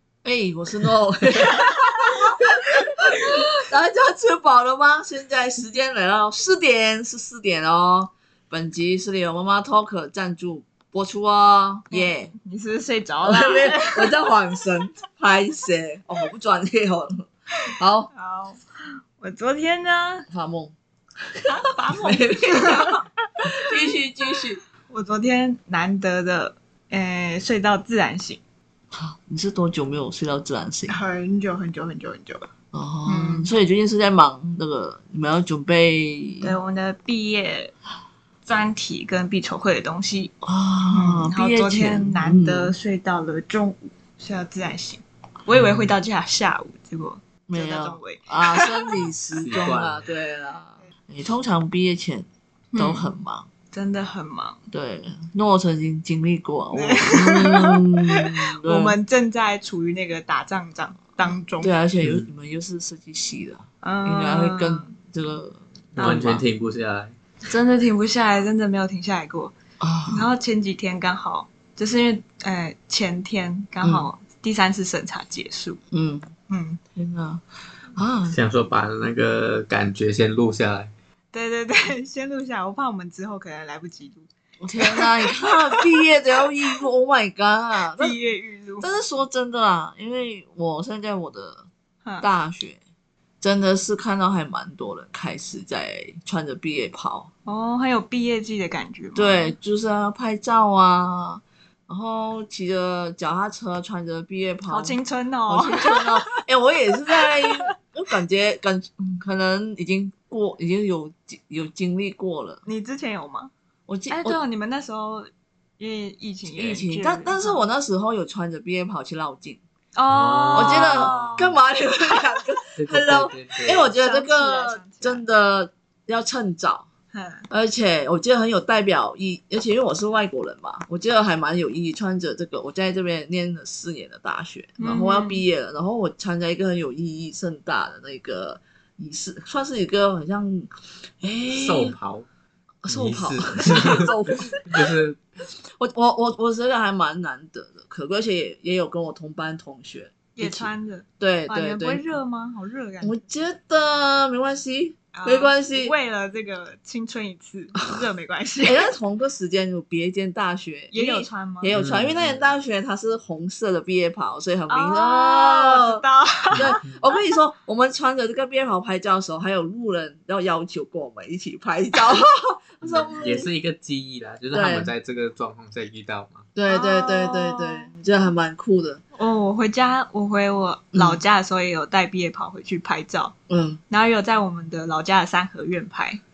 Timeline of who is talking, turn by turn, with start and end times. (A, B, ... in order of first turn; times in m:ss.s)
0:00.2-0:12.3 A
0:11.9-0:14.3 B
0:13.2-0:18.1 A
0:18.1-0:18.6 B
0:19.2-0:20.3 B
0:20.3-0:20.7 A
0:21.5-0:23.9 B
0:21.9-0:24.6 A
0:24.9-0:28.4 B
0:28.9-0:31.0 A
0:30.9-0:32.5 B
0:32.7-0:36.5 A
0:33.0-0:33.5 B
0:36.4-0:37.7 B
0:38.4-0:40.3 B
0:40.4-0:42.7 A
0:40.9-0:48.9 B
0:45.5-0:45.9 C
0:47.5-0:53.5 A
0:49.4-0:50.1 C
0:52.7-0:53.1 B
0:53.7-0:54.6 B
0:54.7-0:59.0 A
0:56.7-1:01.7 B
1:01.6-1:06.4 A
1:02.0-1:02.3 C
1:03.8-1:04.9 B
1:06.0-1:07.1 C
1:06.0-1:06.3 B
1:07.5-1:09.5 B
1:09.8-1:10.3 A
1:10.1-1:15.8 B
1:13.8-1:14.1 A
1:15.9-1:16.3 A
1:16.5-1:16.8 B
1:16.9-1:17.4 A
1:18.0-1:18.4 A
1:18.3-1:20.9 C
1:21.3-1:24.3 B
1:24.6-1:28.1 A
1:24.8-1:25.8 B
1:27.9-1:28.8 B
1:28.8-1:31.6 A
1:32.2-1:32.8 A
1:33.4-1:37.3 A
1:37.4-1:39.5 B
1:39.1-1:45.0 A
1:44.7-1:46.4 B
1:45.5-1:52.6 A
1:47.1-1:47.7 B
1:52.6-1:53.5 B
1:53.9-1:54.4 A
1:54.1-1:57.6 B
1:56.5-1:59.6 A
2:00.0-2:01.5 B
2:00.1-2:01.6 C
2:00.5-2:06.9 A
2:02.8-2:03.9 C
2:03.8-2:05.2 B
2:07.1-2:07.5 B
2:07.5-2:22.0 A
2:14.8-2:15.4 B
2:21.5-2:22.2 C
2:22.8-2:24.9 A
2:22.9-2:25.2 C
2:25.6-2:32.0 A
2:30.4-2:33.2 B
2:33.0-2:35.9 A
2:35.1-2:38.9 B
2:38.6-2:53.5 A
2:40.9-2:41.7 B
2:41.7-2:42.5 C
2:44.7-2:46.8 B
2:46.5-2:47.0 C
2:52.8-2:56.5 C
2:54.5-2:54.9 A
2:56.5-2:59.0 A
2:56.7-2:57.9 B
2:59.1-3:03.3 B
3:00.9-3:01.2 A
3:03.5-3:03.8 A
3:03.9-3:06.2 B